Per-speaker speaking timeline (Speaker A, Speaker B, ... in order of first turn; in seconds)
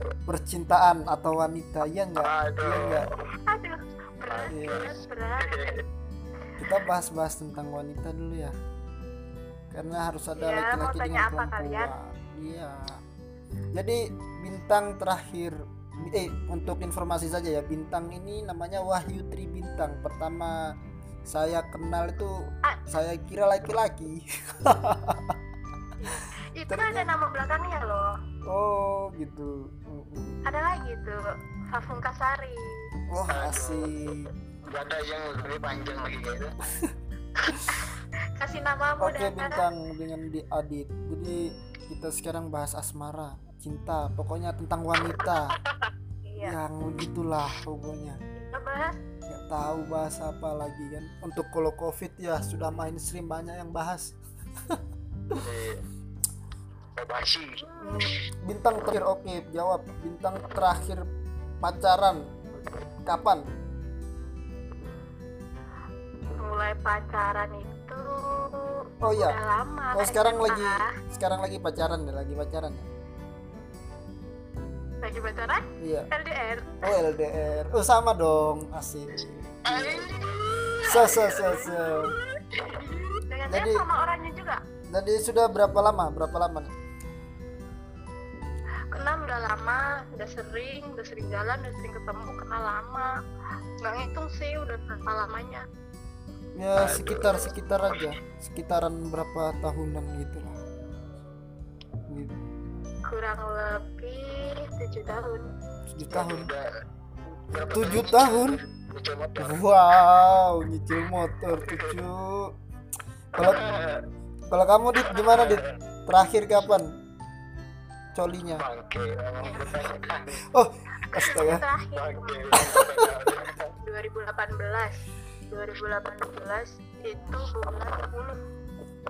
Speaker A: 0.3-3.1, 4.5-4.9, 6.6-8.6, 9.7-13.0, 13.7-20.7, 21.3-25.4, 26.7-27.1, 28.5-30.4, 33.1-34.3, 37.5-37.8, 39.0-45.6, 46.4-48.2, 49.3-55.5, 57.8-61.0, 61.6-62.3, 63.0-63.5, 69.0-69.4, 69.9-72.9, 75.8-76.1, 76.8-80.1, 80.8-82.1, 83.5-83.8, 84.9-86.7, 96.6-100.6, 102.1-102.3, 105.9-106.5, 107.7-108.6, 109.4-112.5, 114.5-116.9, 118.1-118.6, 120.5-121.6, 122.5-123.2
Speaker B: 2.2-3.1, 4.2-5.8, 33.3-34.2, 34.7-36.5, 55.4-55.8, 57.0-57.6, 79.6-83.2, 96.8-98.1, 106.1-106.7, 107.5-109.6, 111.6-112.0, 113.4-114.0, 115.1-115.8, 118.6-120.4, 121.9-123.7
Speaker C: 3.5-5.8, 10.4-11.9, 26.0-28.1, 30.4-32.8, 38.4-39.6, 46.2-46.5, 48.4-49.0, 57.6-58.2, 66.3-71.0, 75.0-77.0, 83.3-84.6, 88.9-93.1, 93.8-95.7, 103.1-105.5, 121.1-122.8, 123.8-128.4